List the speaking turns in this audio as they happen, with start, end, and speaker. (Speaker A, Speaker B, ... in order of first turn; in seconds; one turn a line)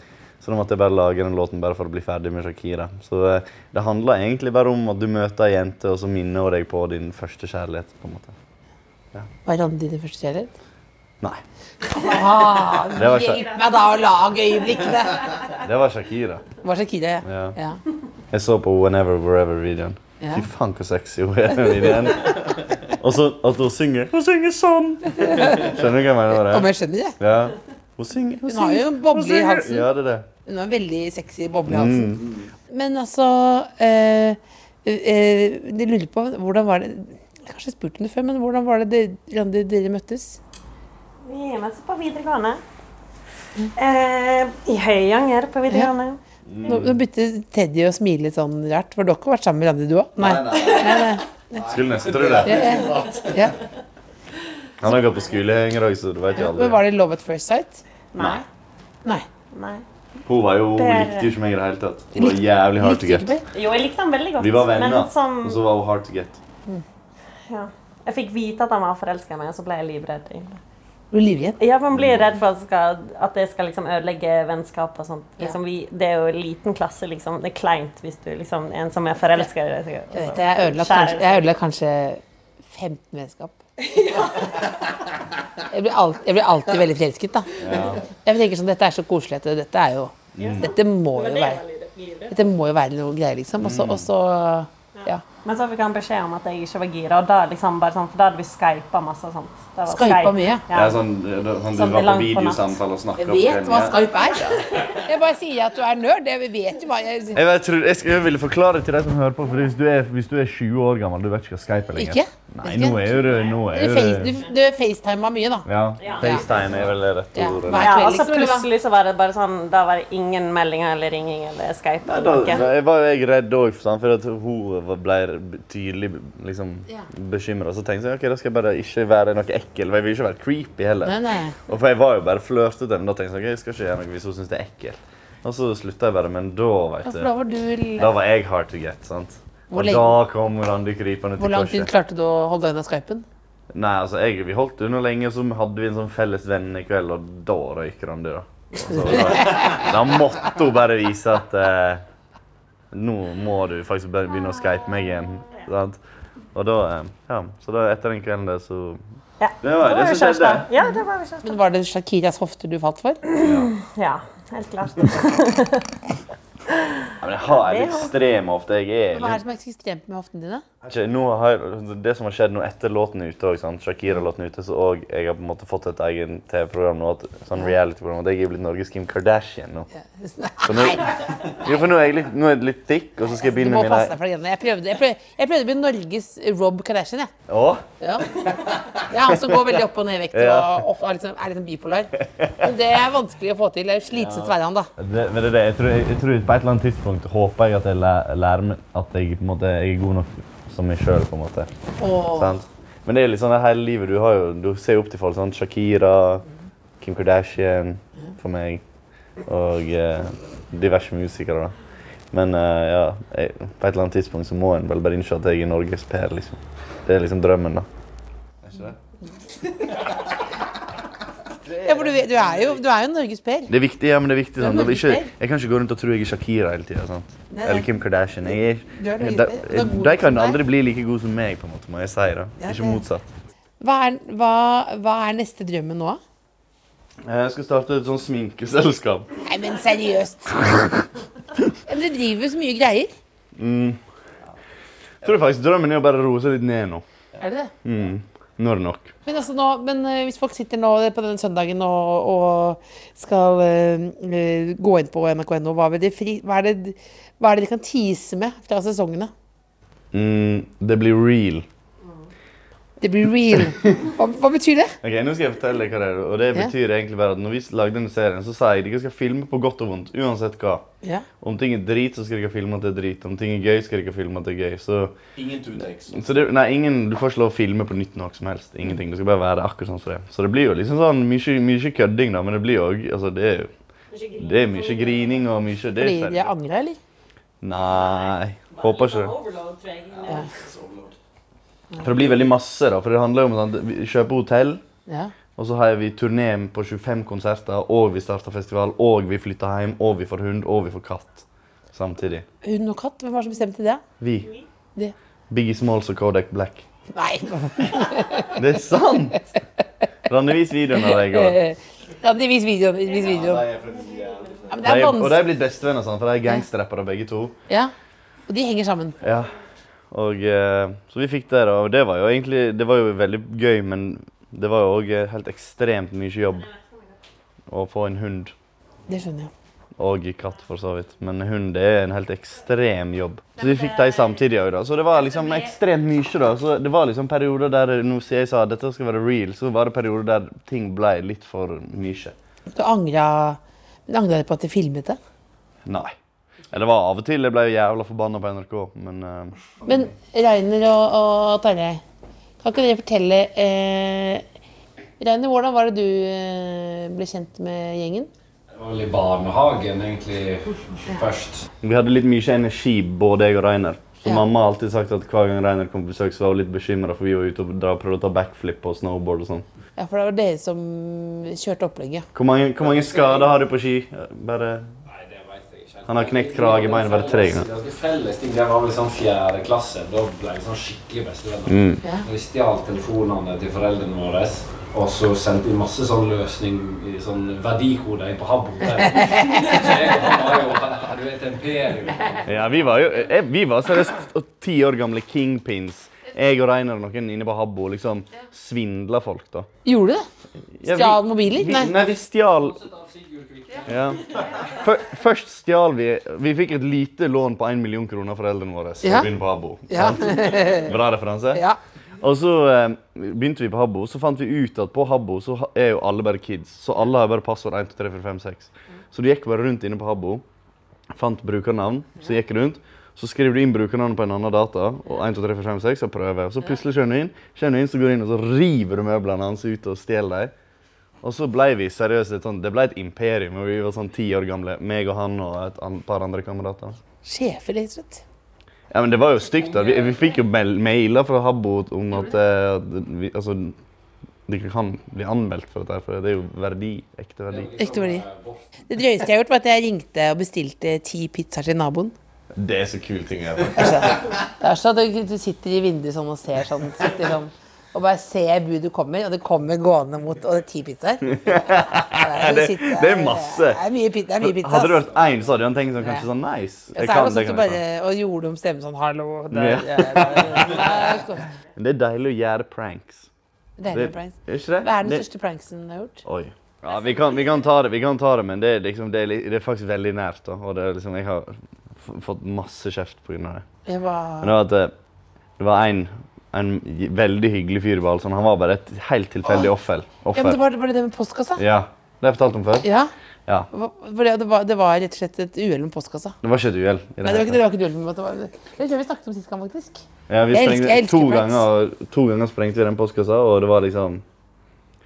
Speaker A: 0.4-8.3
Speaker B: 9.4-10.5
Speaker B: 11.9-15.4
Speaker C: 11.9-12.9
Speaker A: 12.9-13.4
Speaker A: 15.5-16.5
Speaker B: 16.6-17.8
Speaker A: 17.2-17.6
Speaker A: 18.3-30.3
Speaker B: 20.2-20.5
Speaker B: 21.7-22.1
Speaker B: 25.2-25.7
Speaker B: 26.3-27.2
Speaker B: 28.5-29.9
Speaker B: 30.4-40.4
Speaker A: 31.7-32.3
Speaker C: 41.2-42.6
Speaker C: 43.8-46.2
Speaker A: 46.5-47.0
Speaker B: 46.6-51.6
Speaker D: 50.2-53.5
Speaker A: 51.7-52.9
Speaker B: 52.4-53.6
Speaker A: 54.8-56.8
Speaker B: 56.4-57.8
Speaker C: 58.1-58.4
Speaker A: 58.2-58.4
Speaker C: 59.5-59.8
Speaker A: 60.2-63.3
Speaker C: 60.8-61.3
Speaker B: 62.1-63.4
Speaker C: 63.5-65.7
Speaker A: 64.4-66.4
Speaker C: 67.5-70.6
Speaker B: 71.1-71.6
Speaker C: 71.6-81.5
Speaker A: 71.9-72.3
Speaker B: 80.1-83.6
Speaker C: 83.9-84.5
Speaker B: 85.7-87.5
Speaker A: 87.6-88.0
Speaker B: 88.2-91.6
Speaker A: 90.4-90.7
Speaker C: 90.4-92.3
Speaker B: 92.3-95.2
Speaker A: 93.6-94.1
Speaker C: 95.0-101.0
Speaker B: 99.9-100.6
Speaker A: 100.7-104.0
Speaker C: 101.7-102.8
Speaker B: 103.2-107.4
Speaker A: 107.3-114.4
Speaker B: 111.9-115.7
Speaker A: 115.7-118.0
Speaker B: 117.3-118.7
Speaker C: 117.8-122.7
Speaker A: 122.0-137.3
Speaker B: 131.0-131.6
Speaker B: 137.1-138.1
Speaker A: 138.0-141.9
Speaker B: 139.7-140.2
Speaker B: 141.4-143.2
Speaker A: 143.7-152.0
Speaker B: 148.9-149.9
Speaker A: 152.9-156.0
Speaker A: 156.5-159.0
Speaker C: 159.4-161.6
Speaker A: 159.6-160.7
Speaker B: 161.4-163.2
Speaker C: 163.3-165.9
Speaker A: 163.4-163.7
Speaker C: 166.7-168.1
Speaker A: 167.2-169.4
Speaker B: 169.1-170.6
Speaker A: 170.9-179.9
Speaker B: 180.2-181.2
Speaker A: 180.6-184.1
Speaker B: 183.3-187.3
Speaker A: 187.5-187.8
Speaker B: 188.0-194.9
Speaker A: 190.3-190.7
Speaker A: 194.1-201.7
Speaker B: 202.0-202.6
Speaker A: 202.3-206.4
Speaker A: 207.0-208.8
Speaker A: 209.4-211.7
Speaker A: 212.3-217.9
Speaker D: 218.6-219.0
Speaker D: 221.6-222.8
Speaker B: 221.8-223.7
Speaker A: 223.7-233.2
Speaker B: 224.6-225.3
Speaker B: 227.5-227.9
Speaker B: 228.9-230.6
Speaker B: 232.6-233.0
Speaker B: 233.8-236.2
Speaker A: 237.2-239.3
Speaker B: 239.4-240.7
Speaker B: 241.9-243.1
Speaker A: 243.6-244.0
Speaker A: 245.2-247.0
Speaker B: 247.4-247.7
Speaker A: 247.8-249.1
Speaker B: 249.2-259.3
Speaker A: 260.1-261.6
Speaker B: 263.0-264.9
Speaker A: 265.0-270.9
Speaker A: 271.4-275.2
Speaker D: 275.4-276.4
Speaker A: 276.1-283.7
Speaker C: 284.1-285.2
Speaker A: 284.4-286.5
Speaker B: 286.0-287.0
Speaker A: 287.6-289.4
Speaker C: 288.7-290.4
Speaker D: 290.1-291.1
Speaker B: 291.9-292.3
Speaker A: 292.0-294.8
Speaker A: 295.6-302.4
Speaker B: 302.6-304.0
Speaker A: 304.2-304.5
Speaker A: 305.5-306.9
Speaker B: 307.1-308.5
Speaker A: 308.5-309.5
Speaker A: 310.3-311.6
Speaker B: 311.0-313.7
Speaker D: 313.2-314.9
Speaker C: 313.9-314.4
Speaker B: 314.7-315.4
Speaker A: 314.8-317.6
Speaker B: 318.5-319.2
Speaker A: 319.2-319.5
Speaker A: 320.1-326.7
Speaker A: 327.7-328.5
Speaker B: 329.1-329.5
Speaker A: 330.0-342.4
Speaker B: 342.7-345.2
Speaker A: 345.9-346.1
Speaker A: 346.7-349.6
Speaker B: 349.9-352.0
Speaker B: 352.6-354.4
Speaker B: 355.2-358.3
Speaker E: 358.8-361.6
Speaker A: 361.8-369.6
Speaker B: 370.0-372.3
Speaker A: 372.3-374.9
Speaker E: 372.8-373.6
Speaker E: 375.1-392.4
Speaker A: 376.1-377.7
Speaker A: 381.7-382.0
Speaker A: 392.4-399.7
Speaker B: 399.9-400.3
Speaker A: 400.8-402.8
Speaker B: 400.9-401.9
Speaker E: 402.8-403.9
Speaker A: 403.9-411.6
Speaker B: 409.0-409.3
Speaker B: 409.9-410.9
Speaker A: 412.2-420.4
Speaker A: 421.1-430.5
Speaker A: 431.2-437.0
Speaker B: 437.2-438.2
Speaker A: 438.9-443.8
Speaker E: 439.5-440.2
Speaker A: 444.5-447.7
Speaker E: 447.5-448.6
Speaker B: 447.8-448.2
Speaker B: 448.9-452.1
Speaker A: 452.6-454.2
Speaker B: 453.8-465.1
Speaker A: 461.3-463.8
Speaker A: 464.4-467.8
Speaker B: 466.0-466.2
Speaker B: 466.9-471.5
Speaker A: 469.5-470.9
Speaker A: 471.7-473.3
Speaker B: 473.8-476.2
Speaker A: 473.9-475.2
Speaker A: 476.2-483.6
Speaker B: 483.9-484.6
Speaker A: 484.4-484.9
Speaker A: 485.6-490.6
Speaker B: 489.4-489.7
Speaker B: 490.3-491.6
Speaker A: 491.6-492.9
Speaker B: 492.8-493.1
Speaker B: 493.7-496.4
Speaker A: 496.4-497.6
Speaker B: 497.2-501.6
Speaker A: 500.3-504.2